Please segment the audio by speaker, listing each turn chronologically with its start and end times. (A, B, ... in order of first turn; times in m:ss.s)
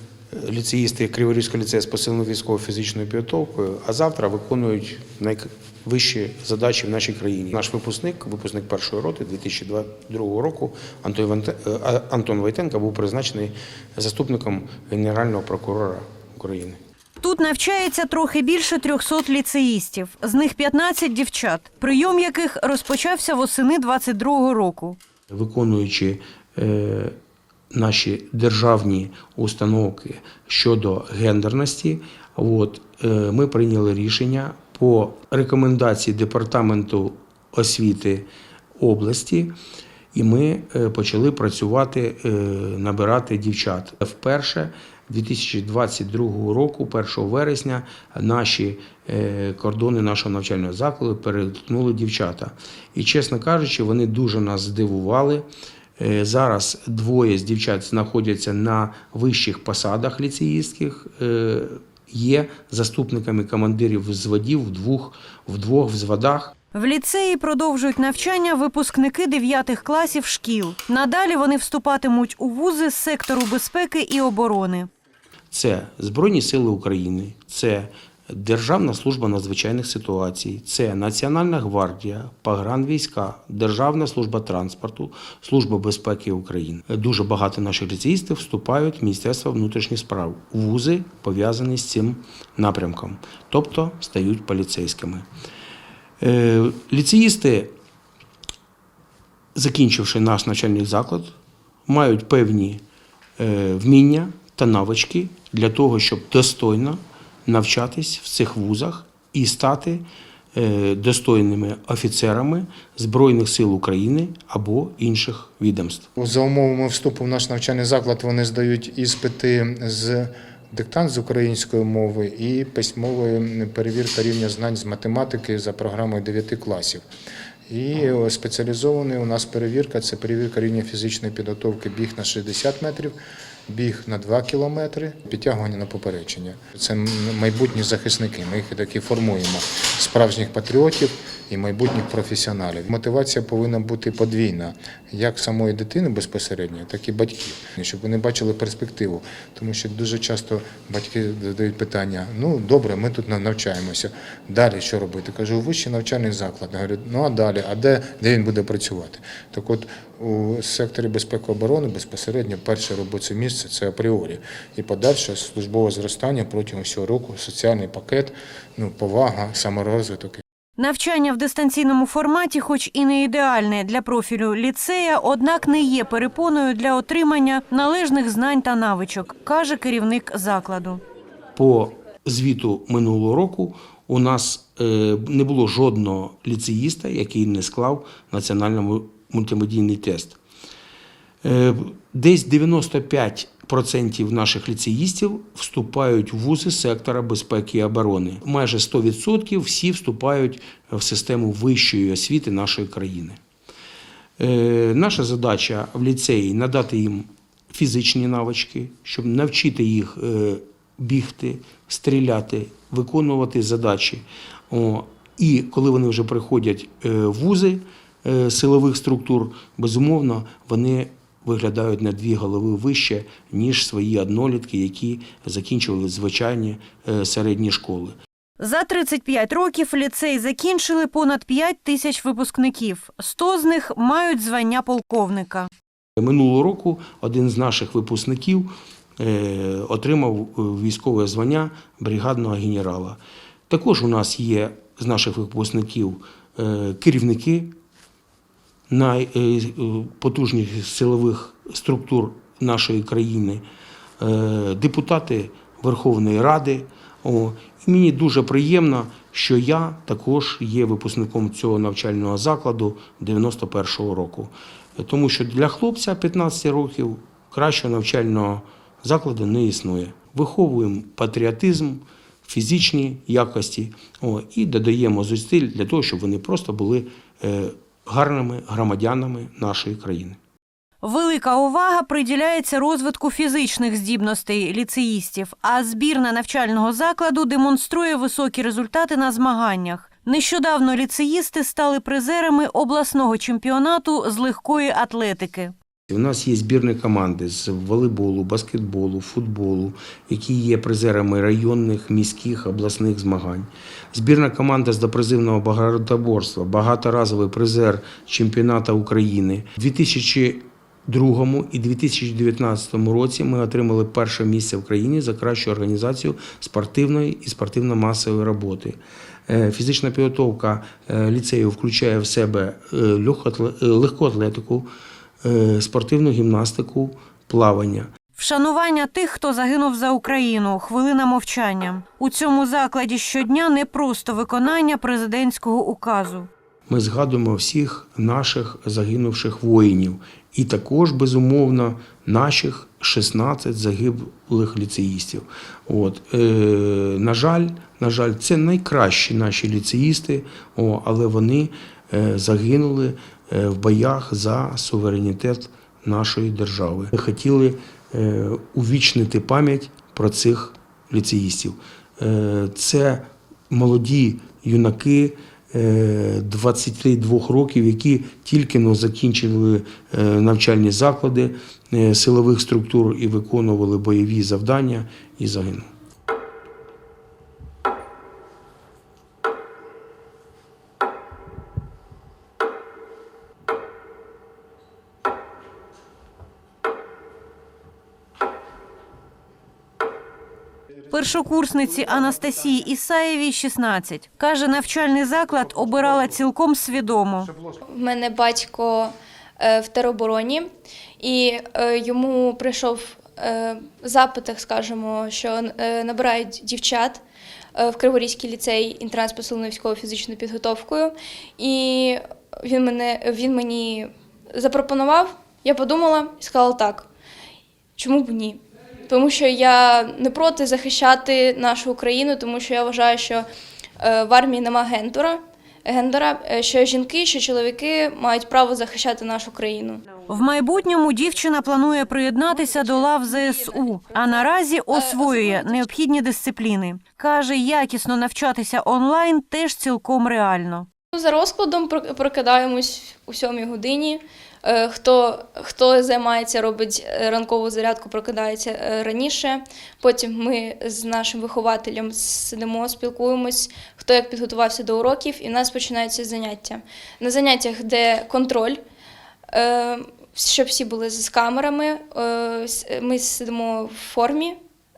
0:00.3-0:16.8 A
0:17.2-0:25.0 B
0:25.3-0:27.2 A
0:27.7-0:39.5 A
0:40.1-0:55.4 A
0:56.0-1:06.5 A
1:06.7-1:14.9 B
1:15.5-1:35.3 A
1:36.2-1:37.7 A
1:39.5-1:41.4 A
1:41.9-1:42.8 A
1:43.4-1:56.1 A
1:56.2-2:07.0 C
2:07.7-2:13.2 C
2:13.7-2:50.4 C
2:50.8-3:01.0 B
3:01.6-3:10.4 A
3:11.4-3:23.4 A
3:24.4-3:48.2 A
3:48.6-3:55.7 B
3:56.2-4:07.7 A
4:08.9-4:13.6 A
4:14.2-4:40.4 A
4:41.0-4:55.7 B
4:56.1-5:24.9 A
5:25.4-5:28.1 A
5:28.4-5:36.5 B
5:36.9-6:15.9 A
6:31.1-6:37.5 B
6:37.8-6:40.7 D
6:41.2-6:47.2 D
6:47.7-6:57.1 D
6:58.0-7:03.5 D
7:04.0-7:10.1 D
7:10.3-7:20.8 B
7:12.5-7:15.9 D
7:21.1-7:38.8 D
7:39.5-7:44.6 D